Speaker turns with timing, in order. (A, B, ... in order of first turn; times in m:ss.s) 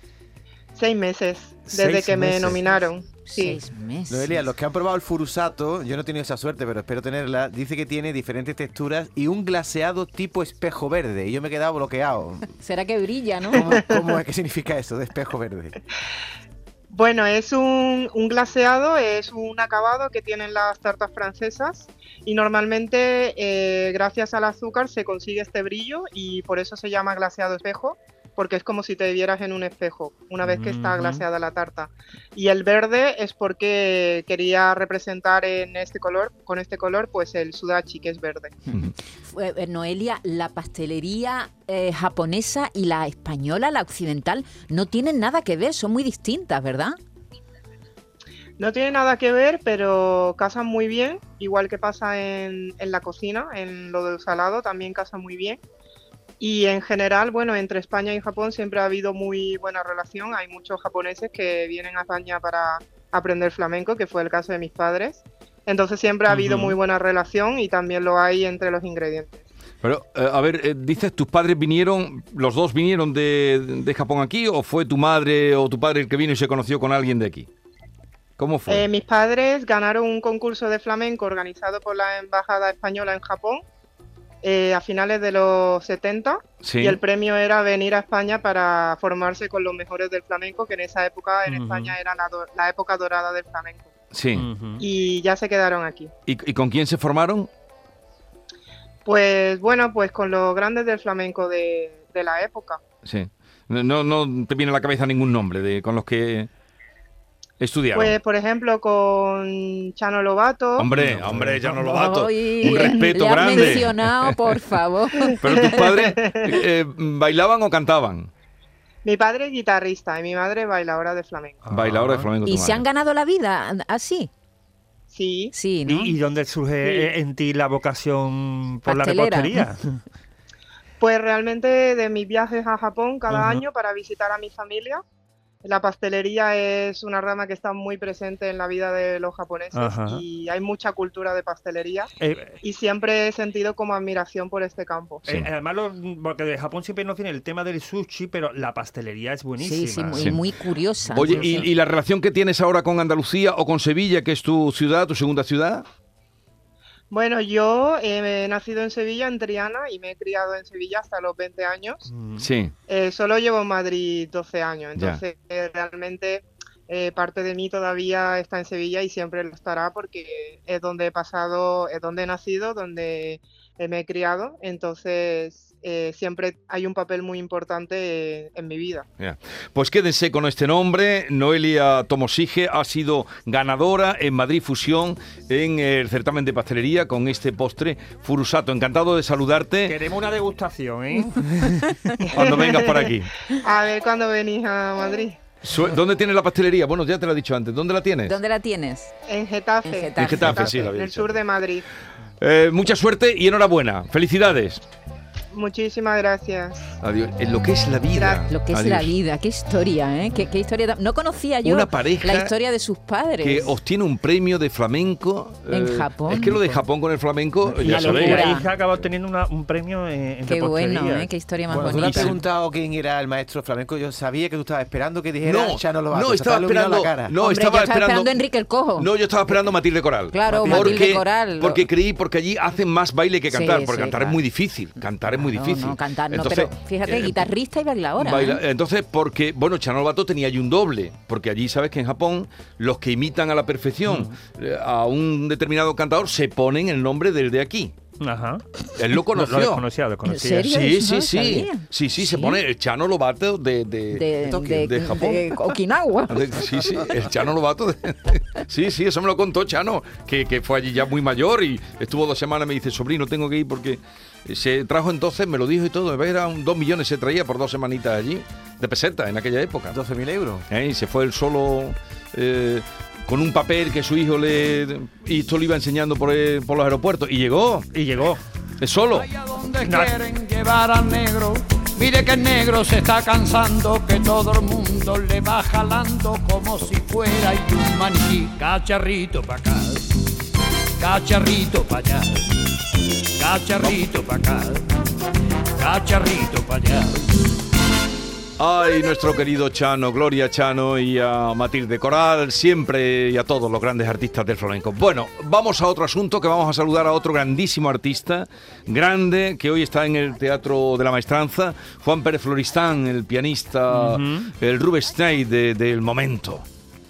0:00.8-0:03.6 A
0:01.7-0:02.6 B
0:03.2-0:04.5 C
0:04.1-0:12.5 D
0:12.6-0:13.8 C
0:13.5-0:15.8 D
0:13.5-0:14.0 A
0:16.9-0:38.5 A
0:30.4-0:31.2 B
0:39.2-0:47.0 C
0:48.6-0:55.6 A
0:56.4-1:09.4 A
1:06.3-1:06.8 B
1:09.8-1:17.5 E
1:18.4-1:18.8 E
1:18.7-1:23.6 A
1:24.4-1:33.9 A
1:26.6-1:27.0 E
1:31.4-1:31.9 B
1:34.1-1:34.5 E
1:34.3-1:34.8 B
1:34.8-1:36.1 A
1:36.3-1:37.5 E
1:39.0-1:42.8 A
1:43.0-1:46.5 E
1:47.6-1:48.1 E
1:47.9-1:50.9 A
1:50.8-1:54.6 E
1:50.9-1:51.9 B
1:51.7-1:55.9 C
1:55.4-1:58.3 E
1:55.5-1:56.6 A
1:59.0-2:01.6 A
2:01.6-2:02.3 B
2:01.7-2:02.8 E
2:02.4-2:04.3 C
2:05.1-2:05.5 A
2:05.5-2:06.2 C
2:05.9-2:10.0 B
2:06.8-2:07.1 A
2:08.9-2:09.7 C
2:11.0-2:15.0 A
2:13.3-2:13.6 B
2:15.6-2:22.1 A
2:19.7-2:20.2 B
2:22.2-2:22.6 B
2:22.6-2:25.2 A
2:25.2-2:30.4 B
2:29.6-2:31.7 C
2:30.2-2:30.4 E
2:31.1-2:31.6 B
2:31.1-2:35.8 E
2:37.1-2:42.1 A
2:42.1-2:42.4 B
2:42.4-2:42.7 E
2:42.9-2:59.1 A
2:45.0-2:45.2 E
2:59.2-3:09.9 E
3:09.9-3:12.0 B
3:12.3-3:13.3 E
3:12.3-3:15.4 A
3:15.6-3:18.4 E
3:18.2-3:19.1 C
3:19.3-3:21.8 A
3:19.8-3:20.7 C
3:20.2-3:21.4 E
3:22.4-3:24.8 E
3:25.5-3:26.9 A
3:27.0-3:29.1 E
3:28.1-3:28.4 A
3:28.4-3:33.8 C
3:31.6-3:32.5 E
3:33.4-3:38.5 E
3:35.7-3:36.6 C
3:37.7-3:42.4 B
3:37.8-3:38.7 C
3:40.5-3:42.3 C
3:41.7-3:47.3 D
3:42.0-3:42.4 E
3:45.4-3:48.4 E
3:47.4-3:49.7 C
3:49.0-3:57.5 E
3:50.3-3:51.9 C
3:50.5-3:51.0 B
3:53.5-3:54.4 C
3:55.3-3:58.6 C
3:58.2-4:07.9 E
4:04.0-4:04.3 B
4:08.2-4:10.7 B
4:08.9-4:09.8 E
4:10.2-4:12.6 C
4:10.6-4:15.6 E
4:14.1-4:16.7 C
4:16.3-4:30.0 E
4:29.9-4:30.7 D
4:30.7-4:37.9 E
4:37.9-4:38.4 B
4:38.8-4:39.3 E
4:39.1-4:50.1 F
4:39.8-4:40.1 B
4:51.0-4:52.6 F
4:53.4-4:54.8 F
4:53.7-4:54.1 E
4:55.8-4:57.3 F
4:58.6-5:16.6 E
5:13.9-5:14.5 B